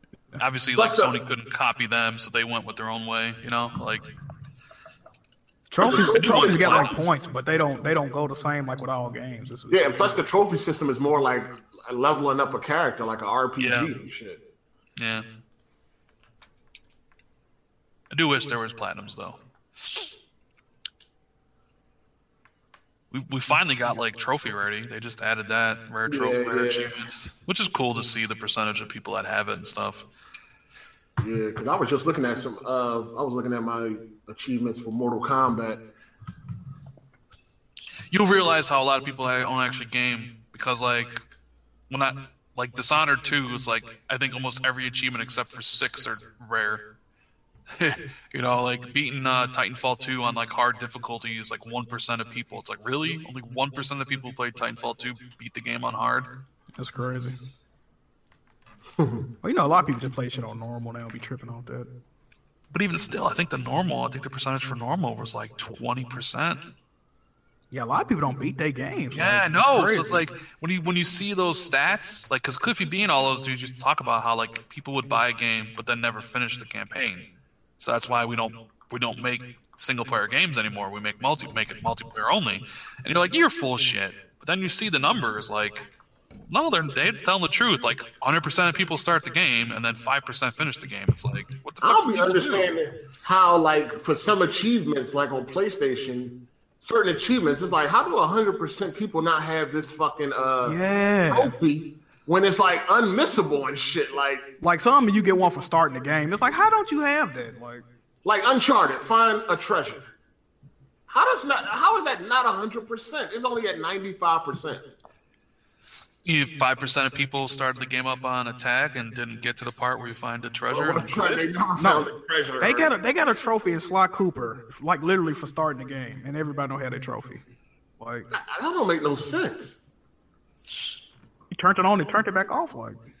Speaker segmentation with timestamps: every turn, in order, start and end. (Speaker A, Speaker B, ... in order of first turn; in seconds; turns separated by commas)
Speaker A: 0.4-4.1, Speaker B: 0.7-1.2, Speaker C: 5.7-10.2, Speaker B: 5.8-6.9, Speaker A: 5.8-7.0, Speaker B: 9.7-14.4, Speaker A: 13.6-13.9, Speaker A: 15.0-15.2, Speaker A: 18.1-19.4, Speaker A: 23.1-30.0, Speaker B: 26.1-27.0, Speaker B: 31.2-35.8, Speaker A: 38.1-41.2, Speaker A: 41.9-46.9, Speaker A: 47.7-56.3, Speaker C: 56.8-57.4, Speaker B: 59.0-59.2, Speaker C: 59.4-61.9, Speaker A: 62.7-66.6, Speaker C: 67.7-70.2, Speaker A: 69.1-77.3, Speaker A: 77.8-85.9, Speaker A: 86.5-92.7, Speaker B: 91.8-104.5, Speaker C: 100.6-101.5, Speaker C: 104.6-107.8, Speaker B: 108.2-110.0, Speaker B: 111.1-114.8, Speaker A: 116.2-121.5, Speaker B: 120.7-122.9, Speaker C: 121.8-122.1, Speaker C: 122.6-127.4, Speaker C: 128.0-128.3, Speaker B: 128.3-129.8, Speaker C: 131.5-133.0